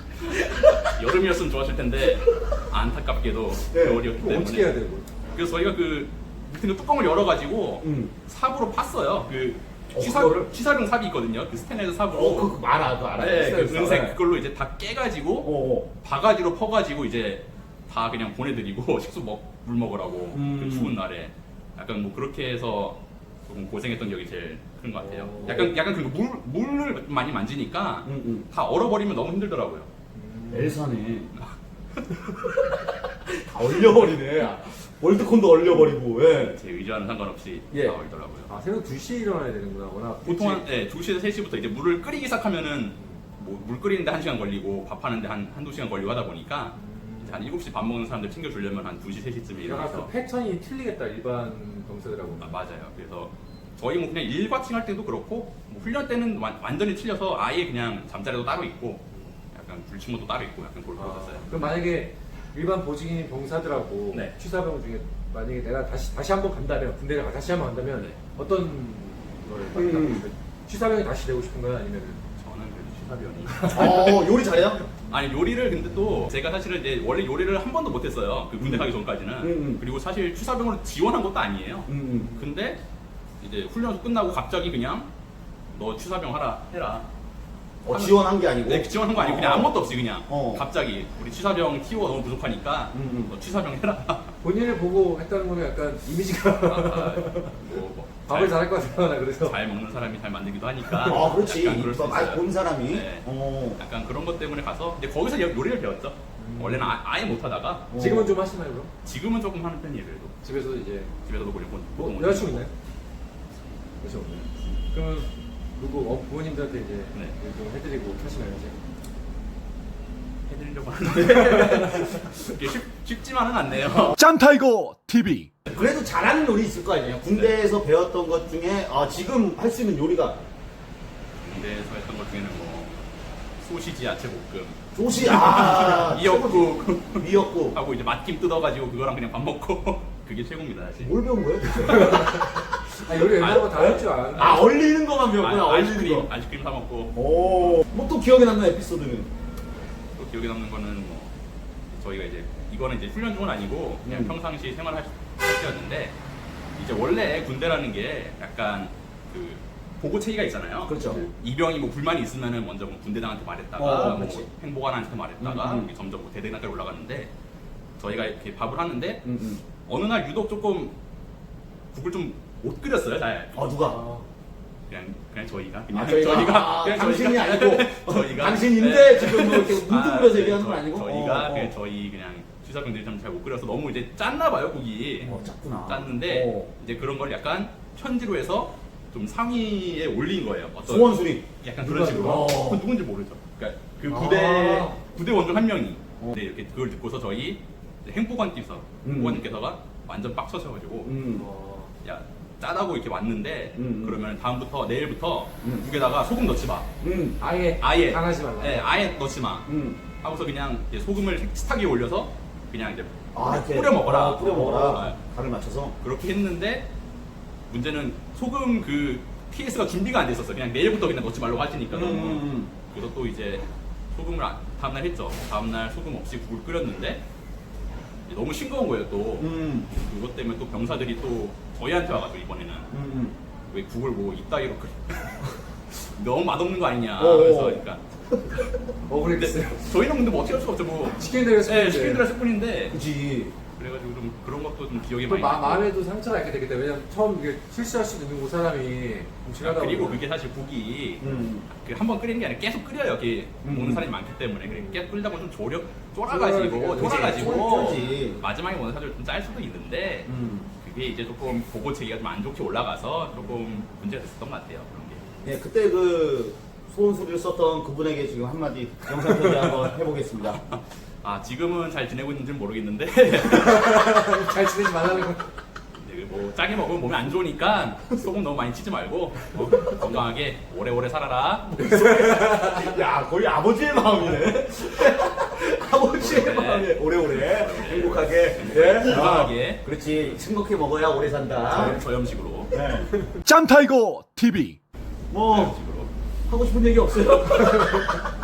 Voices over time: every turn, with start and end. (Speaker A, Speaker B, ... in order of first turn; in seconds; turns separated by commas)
Speaker A: 0.6-0.9, Speaker B: 0.9-4.8, Speaker A: 3.7-4.0, Speaker C: 4.2-5.1, Speaker B: 5.3-12.6, Speaker A: 7.8-8.1, Speaker A: 9.9-10.5, Speaker A: 12.1-14.2, Speaker B: 13.2-29.9, Speaker A: 15.4-15.9, Speaker A: 20.3-21.0, Speaker C: 25.0-25.6, Speaker A: 25.4-25.7, Speaker A: 28.1-28.5, Speaker C: 30.1-30.8, Speaker A: 30.5-31.4, Speaker B: 31.4-32.3, Speaker A: 32.4-36.6, Speaker B: 36.4-38.5, Speaker C: 38.5-40.6, Speaker B: 40.2-50.1, Speaker C: 46.8-47.4, Speaker C: 49.6-52.6, Speaker B: 52.4-61.8, Speaker C: 61.0-72.2, Speaker B: 67.9-68.2, Speaker A: 69.7-70.2, Speaker B: 72.4-74.3, Speaker C: 73.6-74.0, Speaker A: 73.7-74.9, Speaker B: 75.1-82.8, Speaker A: 79.4-79.8, Speaker A: 81.9-82.3, Speaker B: 83.4-85.1, Speaker B: 85.7-87.1, Speaker A: 87.8-90.6, Speaker B: 87.9-94.4, Speaker A: 92.9-93.3, Speaker C: 94.4-97.6, Speaker B: 96.7-107.9, Speaker C: 98.3-99.6, Speaker C: 100.9-101.2, Speaker A: 101.0-103.8, Speaker C: 106.4-107.0, Speaker A: 107.9-108.3, Speaker C: 107.9-108.9, Speaker B: 109.0-110.4, Speaker C: 110.4-111.1, Speaker B: 111.2-112.7, Speaker C: 112.0-112.7, Speaker C: 114.0-118.8, Speaker B: 120.5-124.2, Speaker D: 124.1-125.5, Speaker A: 125.7-130.4, Speaker B: 127.3-127.5, Speaker B: 131.4-133.0, Speaker B: 133.6-141.2, Speaker A: 134.9-137.8, Speaker A: 141.0-142.5, Speaker B: 141.8-142.4, Speaker C: 141.9-142.3, Speaker C: 143.0-144.7, Speaker B: 143.2-144.7, Speaker A: 143.8-146.3, Speaker B: 145.3-147.8, Speaker A: 147.2-149.3, Speaker B: 150.2-151.3, Speaker B: 151.9-156.2, Speaker A: 154.1-154.3, Speaker B: 156.8-167.3, Speaker A: 160.9-161.2, Speaker A: 163.8-164.5, Speaker A: 165.4-165.9, Speaker B: 168.0-170.9, Speaker A: 169.2-169.6, Speaker B: 171.9-173.7, Speaker A: 173.6-174.0, Speaker C: 173.8-174.3, Speaker B: 174.9-185.3, Speaker A: 175.9-181.7, Speaker C: 185.2-185.5, Speaker A: 185.3-186.7, Speaker B: 185.8-201.1, Speaker A: 190.8-191.4, Speaker C: 191.8-192.5, Speaker A: 192.2-192.8, Speaker C: 194.1-195.0, Speaker A: 199.0-199.4, Speaker A: 201.1-201.4, Speaker C: 201.4-201.9, Speaker B: 202.0-206.9, Speaker A: 203.8-204.2, Speaker A: 207.0-207.4, Speaker C: 207.4-208.9, Speaker B: 207.8-209.7, Speaker A: 209.7-210.0, Speaker B: 210.2-215.2, Speaker A: 213.3-216.0, Speaker B: 216.0-216.9, Speaker B: 217.7-227.2, Speaker A: 221.9-222.7, Speaker B: 228.3-232.9, Speaker A: 229.4-229.9, Speaker A: 232.9-233.3, Speaker B: 233.7-238.0, Speaker A: 237.2-237.8, Speaker C: 239.1-240.0, Speaker B: 239.3-243.0, Speaker C: 241.2-242.3, Speaker A: 242.9-243.5, Speaker B: 243.8-245.9, Speaker C: 245.3-250.2, Speaker B: 249.6-265.2, Speaker A: 251.2-251.7, Speaker A: 253.6-254.1, Speaker C: 254.7-255.0, Speaker C: 256.3-258.4, Speaker A: 257.0-258.4, Speaker A: 260.3-260.7, Speaker A: 265.4-270.6, Speaker B: 270.4-274.4, Speaker C: 273.6-275.5, Speaker B: 275.9-281.9, Speaker A: 281.7-292.0, Speaker B: 286.2-290.4, Speaker B: 291.7-292.8, Speaker A: 292.7-293.1, Speaker D: 293.4-294.8, Speaker A: 295.3-295.8, Speaker B: 295.5-296.1, Speaker A: 296.5-298.2